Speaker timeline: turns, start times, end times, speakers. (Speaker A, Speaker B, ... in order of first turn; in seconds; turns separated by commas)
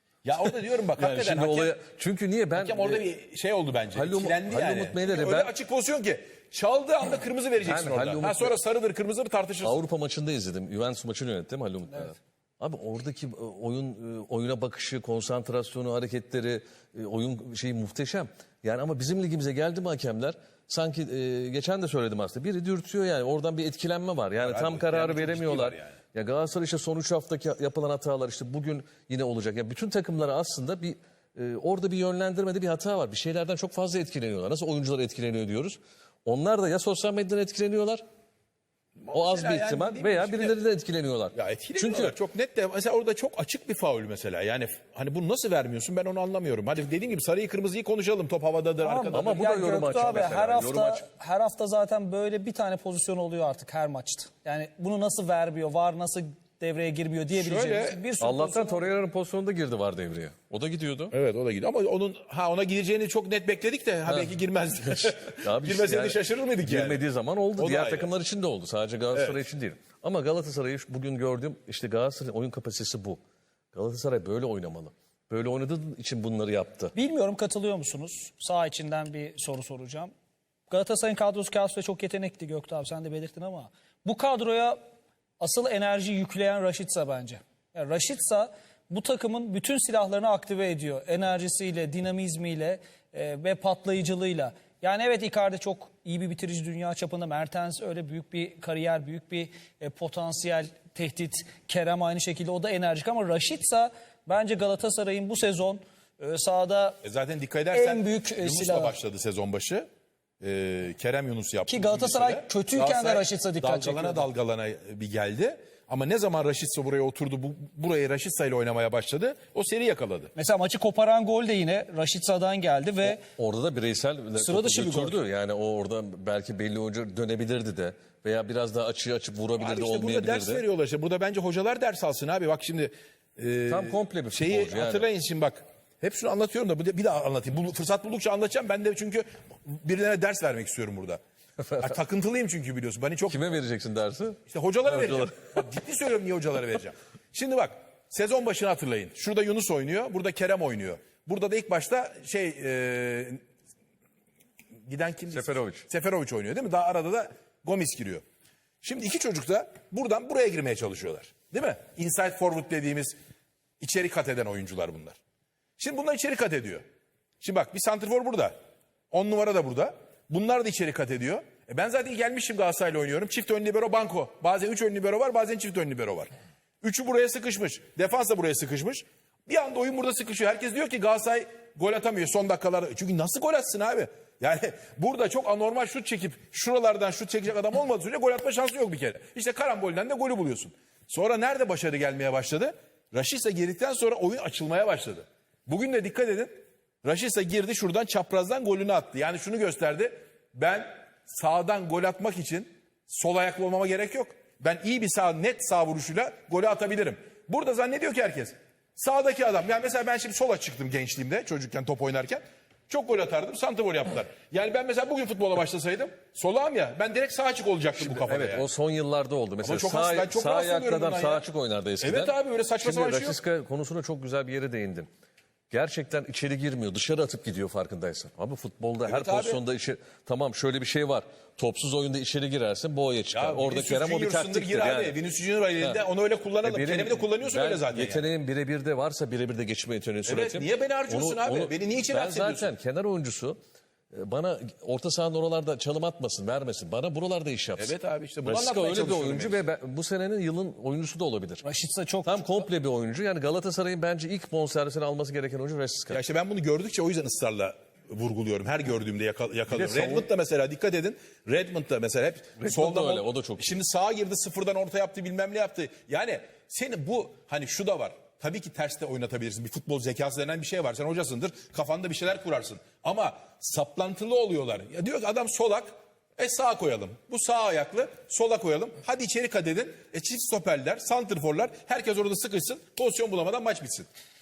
Speaker A: 0.2-1.8, Speaker B: 0.4-3.1, Speaker A: 2.5-9.8, Speaker B: 3.9-5.5, Speaker B: 7.6-8.5, Speaker B: 9.6-38.0, Speaker A: 24.4-26.0, Speaker A: 39.0-40.6, Speaker B: 39.1-42.1, Speaker A: 41.3-49.5, Speaker C: 48.8-58.9, Speaker B: 49.1-51.0, Speaker A: 57.3-58.0, Speaker B: 58.2-61.1, Speaker A: 61.1-67.0, Speaker B: 64.0-73.2, Speaker A: 67.5-68.1, Speaker A: 69.1-69.4, Speaker B: 73.7-76.9, Speaker C: 76.9-80.1, Speaker C: 80.7-84.8, Speaker C: 85.4-107.0, Speaker A: 107.0-109.9, Speaker C: 107.7-109.0, Speaker A: 110.4-120.3, Speaker C: 111.7-114.3, Speaker C: 120.3-123.2, Speaker B: 123.0-130.6, Speaker C: 124.4-125.2, Speaker A: 129.6-141.2, Speaker B: 133.7-135.1, Speaker B: 141.6-142.0, Speaker A: 141.8-143.4, Speaker B: 143.3-145.4, Speaker A: 144.5-153.4, Speaker A: 154.8-158.2, Speaker B: 155.3-155.8, Speaker A: 158.8-163.1, Speaker A: 163.8-165.2, Speaker A: 165.8-166.8, Speaker A: 167.4-168.5, Speaker A: 169.1-176.3, Speaker A: 176.8-218.7, Speaker B: 218.0-225.1, Speaker A: 219.6-221.5, Speaker A: 222.0-223.4, Speaker B: 225.7-235.2, Speaker A: 229.1-229.6, Speaker A: 233.3-238.3, Speaker B: 236.6-243.6, Speaker A: 240.2-242.7, Speaker B: 244.1-247.9, Speaker A: 247.8-249.6, Speaker B: 248.4-251.6, Speaker C: 251.6-252.5, Speaker B: 252.2-256.2, Speaker A: 256.1-284.1, Speaker B: 259.7-260.3, Speaker B: 262.6-263.7